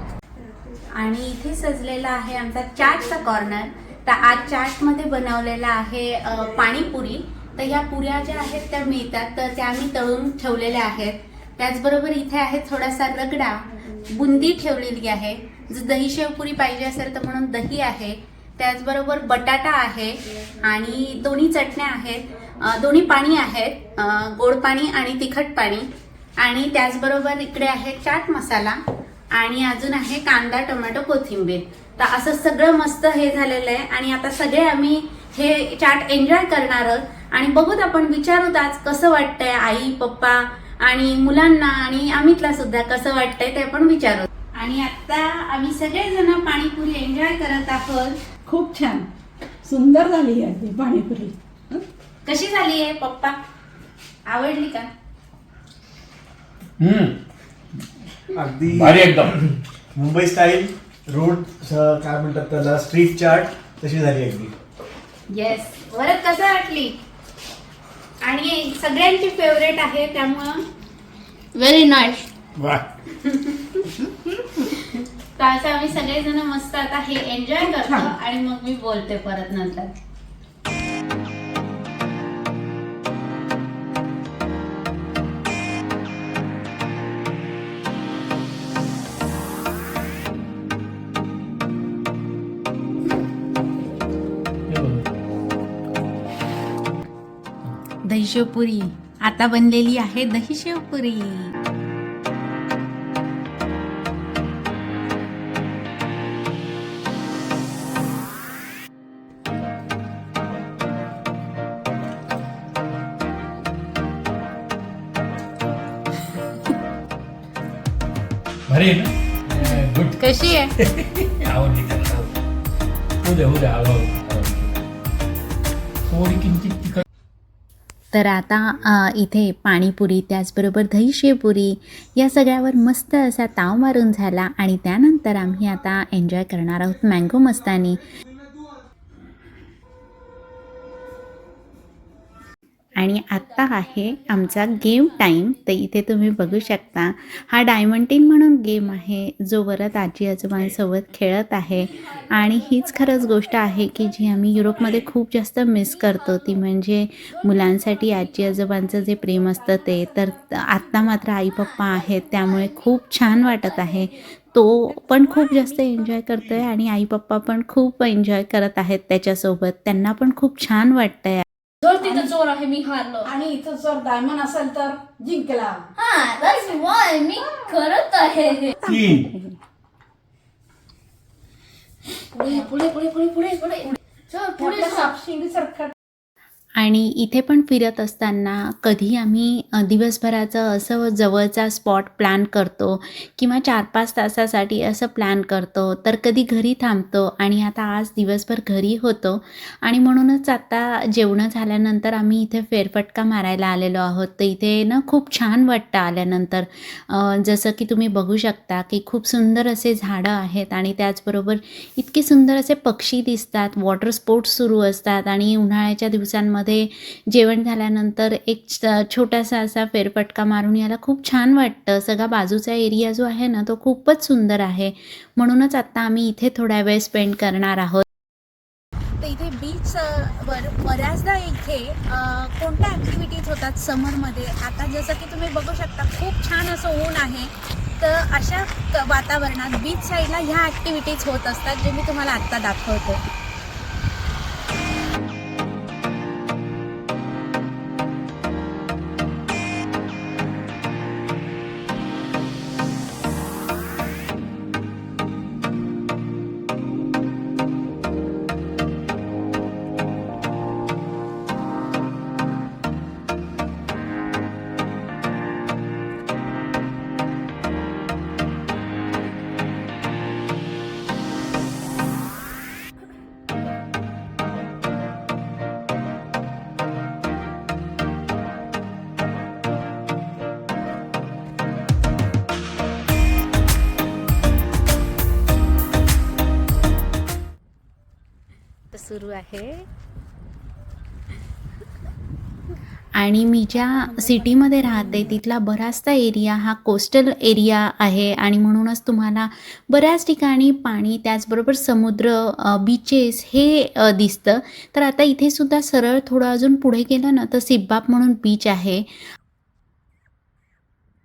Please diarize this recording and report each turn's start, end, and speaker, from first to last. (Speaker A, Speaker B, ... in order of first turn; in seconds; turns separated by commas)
Speaker A: 0.9-25.9, Speaker A: 26.4-28.8, Speaker A: 29.3-48.2, Speaker B: 48.4-49.1, Speaker B: 49.6-51.8, Speaker A: 52.2-53.4, Speaker A: 54.3-54.9, Speaker C: 56.8-57.2, Speaker D: 58.3-59.3, Speaker C: 58.7-59.4, Speaker D: 59.9-64.5, Speaker A: 65.3-67.0, Speaker A: 68.2-70.6, Speaker A: 71.5-72.2, Speaker C: 72.5-72.8, Speaker A: 73.1-73.8, Speaker A: 74.6-79.9, Speaker C: 94.7-95.1, Speaker A: 98.0-101.5, Speaker C: 118.7-120.2, Speaker A: 119.6-120.7, Speaker C: 120.8-122.3, Speaker C: 123.2-124.8, Speaker C: 126.1-127.0, Speaker A: 128.1-138.0, Speaker A: 142.9-171.4, Speaker B: 171.8-177.8, Speaker E: 172.0-173.3, Speaker E: 176.0-178.7, Speaker C: 178.8-179.3, Speaker A: 178.8-179.3, Speaker B: 182.3-182.9, Speaker E: 182.3-184.9, Speaker B: 183.6-185.9, Speaker A: 186.8-228.0, Speaker A: 229.2-243.2, Speaker A: 288.9-289.9, Speaker A: 293.1-309.1